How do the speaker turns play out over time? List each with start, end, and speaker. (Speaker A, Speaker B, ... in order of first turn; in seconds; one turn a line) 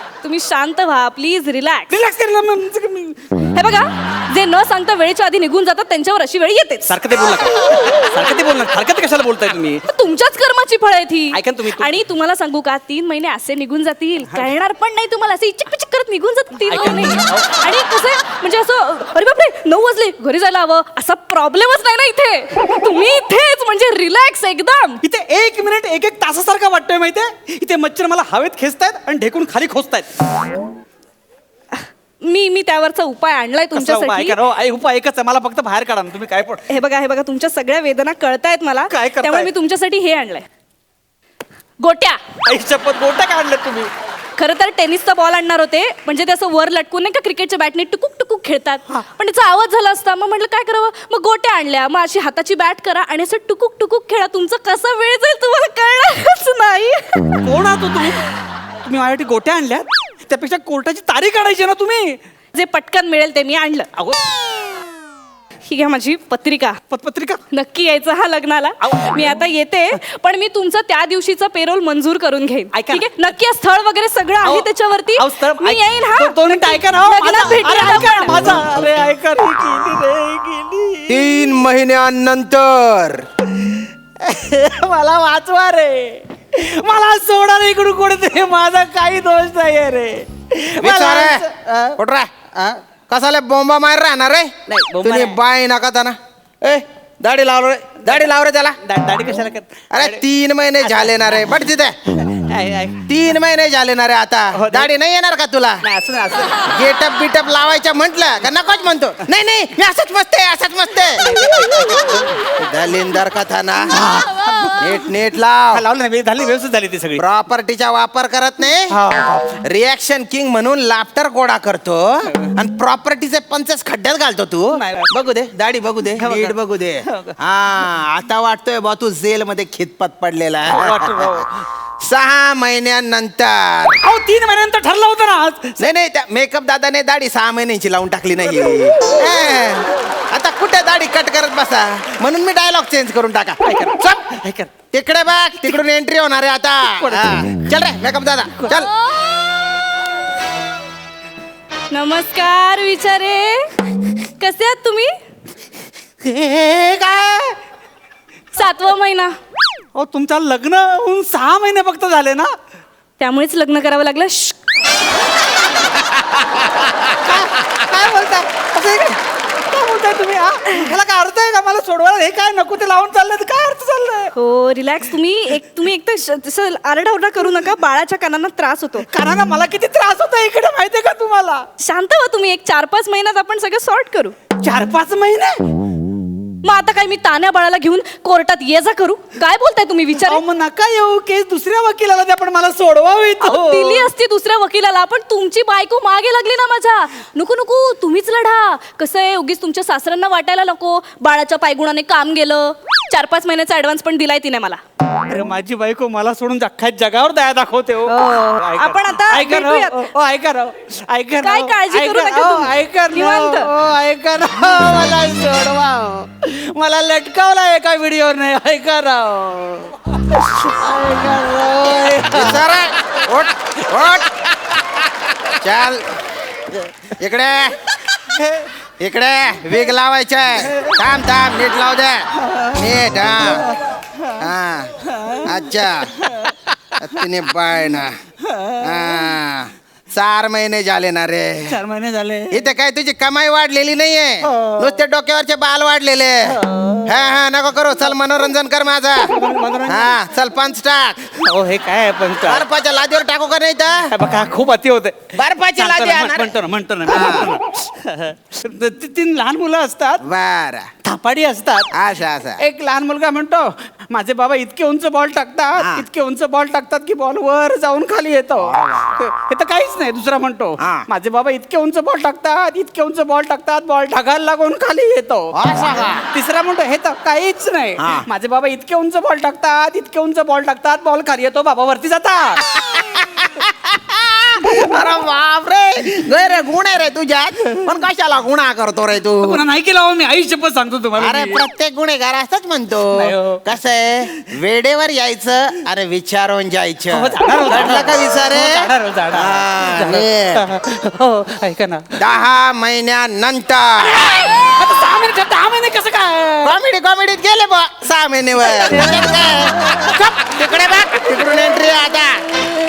Speaker A: 0.2-2.0
Speaker B: 1.9-3.2
Speaker A: 3.4-6.9
Speaker B: 6.8-9.8
Speaker A: 9.9-25.0
Speaker B: 11.3-11.9
Speaker B: 16.6-17.6
Speaker B: 25.0-30.1
Speaker A: 31.7-34.4
Speaker B: 33.7-36.6
Speaker A: 36.7-40.5
Speaker B: 38.9-39.5
Speaker A: 41.8-42.2
Speaker B: 42.4-43.9
Speaker A: 44.4-57.3
Speaker B: 57.4-58.3
Speaker B: 58.8-62.2
Speaker A: 62.5-63.9
Speaker A: 65.7-66.8
Speaker B: 66.9-67.4
Speaker A: 67.5-78.4
Speaker B: 68.8-69.3
Speaker B: 72.7-73.1
Speaker B: 74.4-81.6
Speaker C: 81.1-83.2
Speaker B: 83.7-92.0
Speaker C: 90.8-91.5
Speaker C: 92.0-98.8
Speaker B: 94.7-95.4
Speaker B: 98.8-100.2
Speaker C: 99.9-102.0
Speaker B: 100.8-101.6
Speaker B: 102.2-103.0
Speaker C: 103.1-105.8
Speaker B: 104.5-104.9
Speaker B: 105.8-106.7
Speaker C: 106.6-111.3
Speaker B: 111.2-112.4
Speaker C: 112.6-114.0
Speaker B: 113.9-115.1
Speaker C: 114.8-115.8
Speaker B: 115.7-117.2
Speaker C: 117.2-119.0
Speaker B: 118.9-119.6
Speaker C: 119.6-131.4
Speaker B: 122.3-122.5
Speaker B: 124.7-125.1
Speaker B: 126.2-127.3
Speaker B: 130.7-131.6
Speaker C: 132.0-134.0
Speaker B: 134.0-135.9
Speaker C: 135.8-144.3
Speaker B: 143.6-144.7
Speaker C: 144.9-148.9
Speaker B: 146.8-147.5
Speaker A: 151.9-155.2
Speaker B: 156.2-157.6
Speaker A: 158.5-159.3
Speaker B: 159.9-162.5
Speaker A: 163.2-164.6
Speaker B: 167.1-174.3
Speaker A: 174.3-179.1
Speaker B: 179.1-181.6
Speaker A: 181.8-184.3
Speaker B: 184.6-185.6
Speaker A: 186.6-190.4
Speaker B: 190.2-194.1
Speaker A: 193.4-204.8
Speaker B: 205.2-222.6
Speaker A: 208.1-210.1
Speaker A: 211.4-213.7
Speaker C: 222.3-224.3
Speaker C: 225.6-226.1
Speaker C: 227.2-227.8
Speaker B: 228.2-228.6
Speaker C: 229.0-233.7
Speaker B: 230.7-231.0
Speaker B: 232.5-232.8
Speaker C: 234.4-234.9
Speaker B: 235.1-235.5
Speaker C: 235.4-236.2
Speaker B: 236.2-236.5
Speaker C: 237.0-238.1
Speaker B: 238.5-238.9
Speaker C: 238.8-241.8
Speaker B: 241.7-242.6
Speaker C: 242.5-249.3
Speaker B: 244.4-245.0
Speaker B: 246.5-247.1
Speaker B: 249.2-250.1
Speaker C: 249.8-251.3
Speaker B: 251.4-252.6
Speaker C: 252.4-254.1
Speaker B: 254.1-260.2
Speaker C: 255.3-256.5
Speaker C: 257.0-257.5
Speaker C: 260.2-260.9
Speaker B: 261.0-261.9
Speaker C: 261.9-262.6
Speaker B: 262.6-282.6
Speaker C: 265.8-266.1
Speaker C: 268.6-269.1
Speaker C: 270.8-271.1
Speaker C: 275.5-276.2
Speaker C: 278.0-278.3
Speaker C: 282.7-289.6
Speaker B: 289.4-291.6
Speaker C: 291.2-300.6
Speaker B: 293.1-293.6
Speaker B: 297.1-302.1
Speaker C: 302.2-304.2
Speaker B: 304.0-306.8
Speaker C: 306.6-312.4
Speaker B: 308.6-310.5